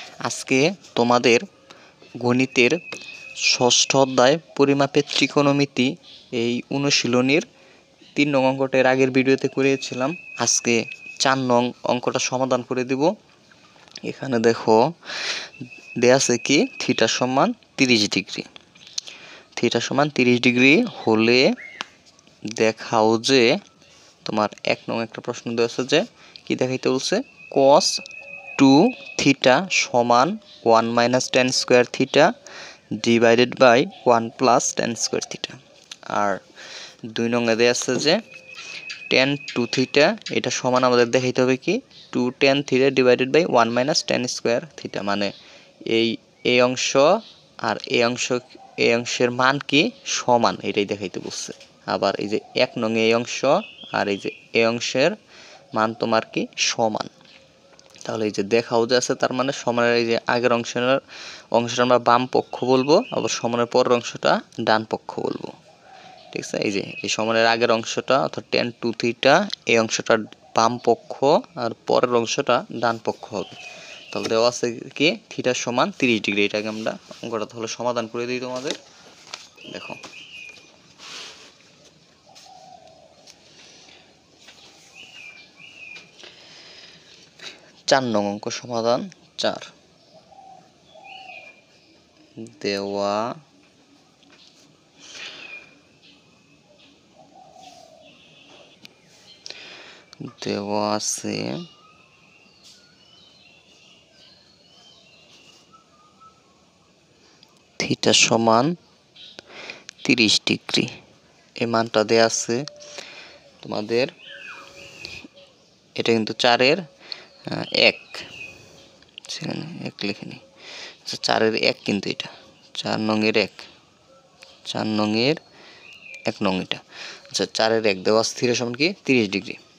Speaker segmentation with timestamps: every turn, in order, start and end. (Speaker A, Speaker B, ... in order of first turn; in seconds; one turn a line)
Speaker A: 0.2-1.4
Speaker A: 2.2-2.8
Speaker A: 3.4-7.5
Speaker A: 8.1-13.1
Speaker A: 14.0-14.8
Speaker A: 16.0-18.5
Speaker A: 19.6-21.5
Speaker A: 22.6-23.6
Speaker A: 24.2-28.0
Speaker A: 28.6-32.3
Speaker A: 33.0-35.6
Speaker A: 36.1-36.4
Speaker A: 37.1-38.2
Speaker A: 39.1-45.3
Speaker A: 45.9-55.1
Speaker A: 55.8-57.1
Speaker A: 58.0-61.0
Speaker A: 61.5-65.5
Speaker A: 66.3-73.6
Speaker A: 74.1-78.8
Speaker A: 79.7-80.0
Speaker A: 87.9-89.7
Speaker A: 92.4-93.3
Speaker A: 100.2-101.6
Speaker A: 107.8-108.8
Speaker A: 110.0-110.9
Speaker A: 111.6-112.6
Speaker A: 113.6-114.1
Speaker A: 116.0-116.8
Speaker A: 117.5-118.2
Speaker A: 119.3-120.4
Speaker A: 121.0-123.7
Speaker A: 124.7-125.4
Speaker A: 126.3-129.6